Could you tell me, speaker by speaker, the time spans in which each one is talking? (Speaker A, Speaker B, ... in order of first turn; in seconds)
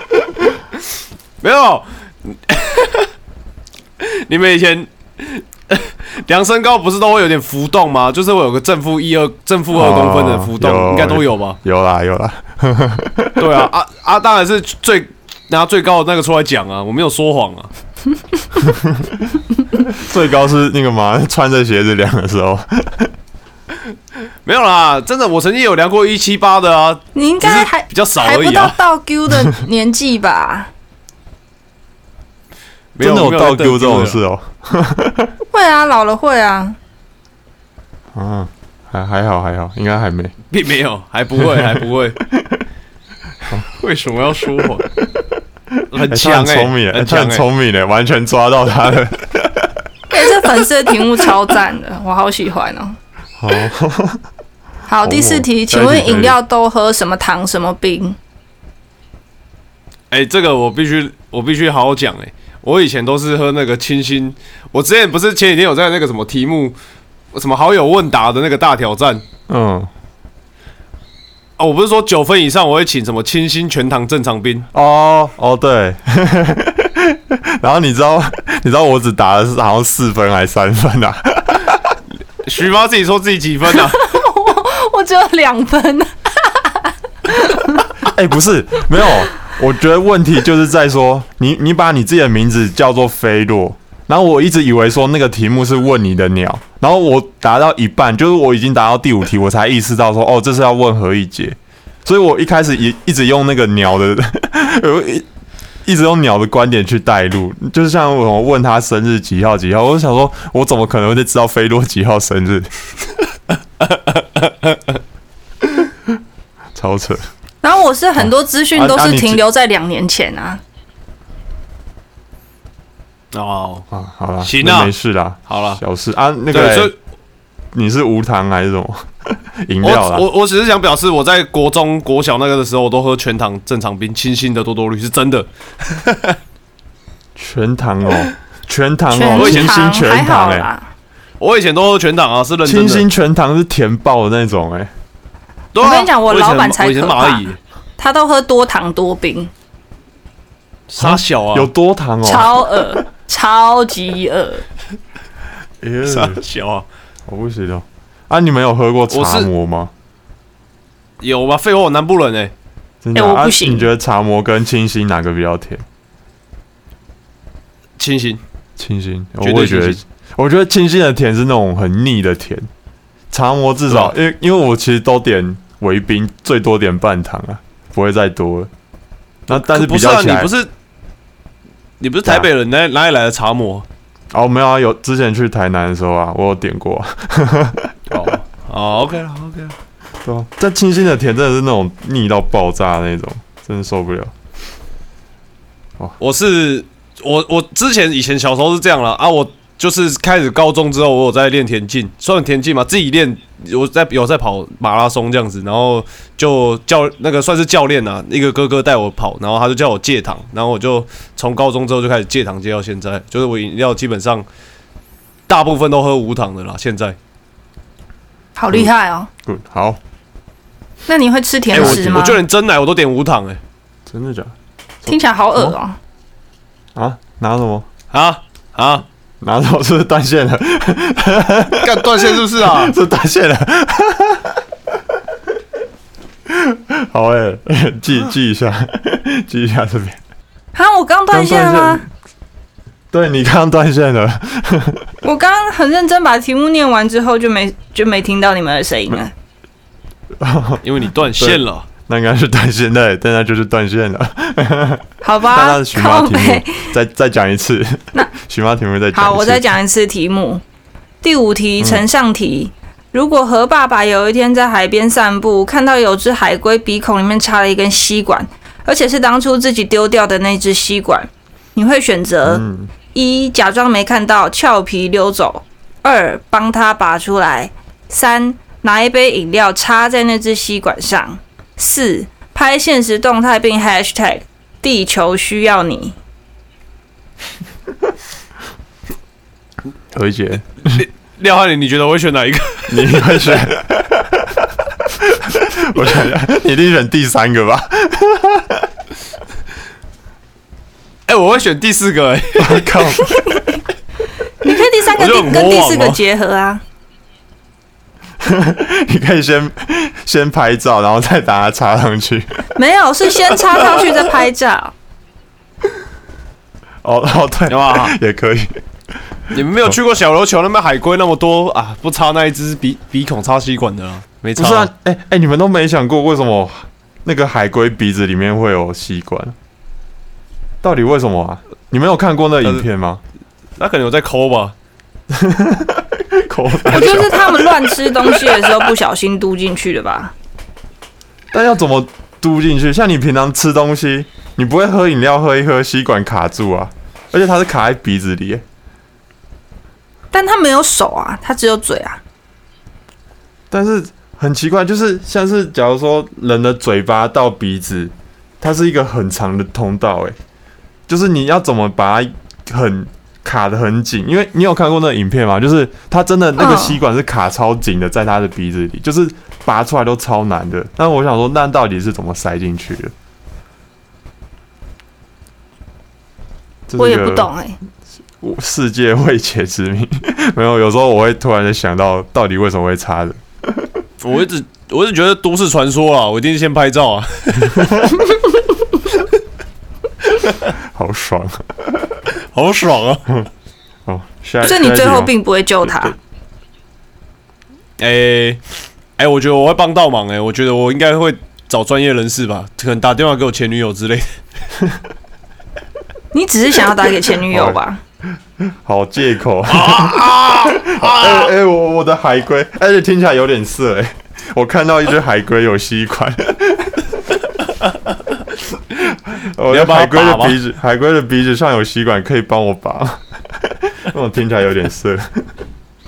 Speaker A: 1.4-3.1, 4.0-11.6, 13.4-17.7, 24.4-28.8, 32.9-34.2, 40.5-42.2, 43.7-44.8, 45.9-47.4, 60.1-66.8, 67.3-69.2, 71.6-74.7, 82.4-84.0, 113.8-115.0, 123.3-123.8, 124.4-124.9, 125.5-125.8, 126.5-126.9, 129.8-136.4, 139.3-139.7, 141.4-143.1, 145.7-147.6, 150.9-151.7, 156.1-156.9, 159.1-159.5, 161.2-162.5, 168.0-168.4, 169.4-170.0, 173.9-174.1, 179.5-180.7, 182.0-183.8, 188.1-189.8, 196.2-214.4, 215.5-217.2, 221.7-223.6, 228.1-229.0, 231.8-232.9, 250.8-251.8, 290.8-293.3, 301.3-302.9, 305.1-306.2, 317.7-318.1, 319.5-324.9, 333.8-334.7, 384.2-387.9, 390.4-390.7, 392.5-393.2, 398.0-398.6, 399.2-404.3, 409.7-411.5, 419.7-420.6
Speaker B: 9.7-13.7, 18.6-19.3, 19.9-23.1, 33.0-35.3, 38.1-40.3, 41.4-41.8, 42.3-42.6, 45.0-51.3, 53.4-54.2, 55.0-56.4, 69.5-69.9, 74.7-81.9, 88.0-105.2, 105.8-112.7, 116.7-117.3, 118.2-119.4, 123.9-126.9, 127.7-130.2, 137.3-140.7, 142.6-144.9, 151.0-152.8, 155.8-156.4, 157.3-159.9, 163.0-165.8, 168.8-172.7, 173.3-178.7, 179.5-180.5, 184.3-188.3, 190.2-194.3, 219.4-220.0, 221.8-222.3, 224.1-224.5, 225.0-225.8, 226.9-227.8, 229.4-234.6, 236.5-240.2, 241.3-242.1, 243.1-245.1, 250.3-259.8, 272.4-272.9, 290.1-291.0, 292.9-298.9, 302.6-303.6, 308.4-312.6, 317.0-318.8, 324.6-329.5, 330.8-333.2, 335.3-338.7, 341.5-348.6, 353.7-360.4, 361.1-373.1, 376.9-377.5, 378.4-383.9, 387.8-388.2, 390.8-392.2, 394.1-396.1, 407.5-407.8, 408.6-417.1, 419.1-425.5
Speaker C: 27.1-30.7, 35.5-36.8, 50.1-53.0, 54.9-58.2, 83.9-87.9, 117.6-120.6, 139.1-140.9, 145.8-147.4, 148.0-149.5, 152.2-154.6, 163.1-163.9, 218.6-219.3, 221.1-222.4, 225.1-225.9, 240.7-242.0, 245.2-249.3, 255.2-256.9, 259.1-260.6, 261.2-272.6, 273.1-286.1, 303.3-303.6, 304.6-306.8, 312.8-314.9, 336.8-340.3, 350.3-352.2, 366.6-367.0, 377.0-377.8, 394.6-396.1, 406.3-408.0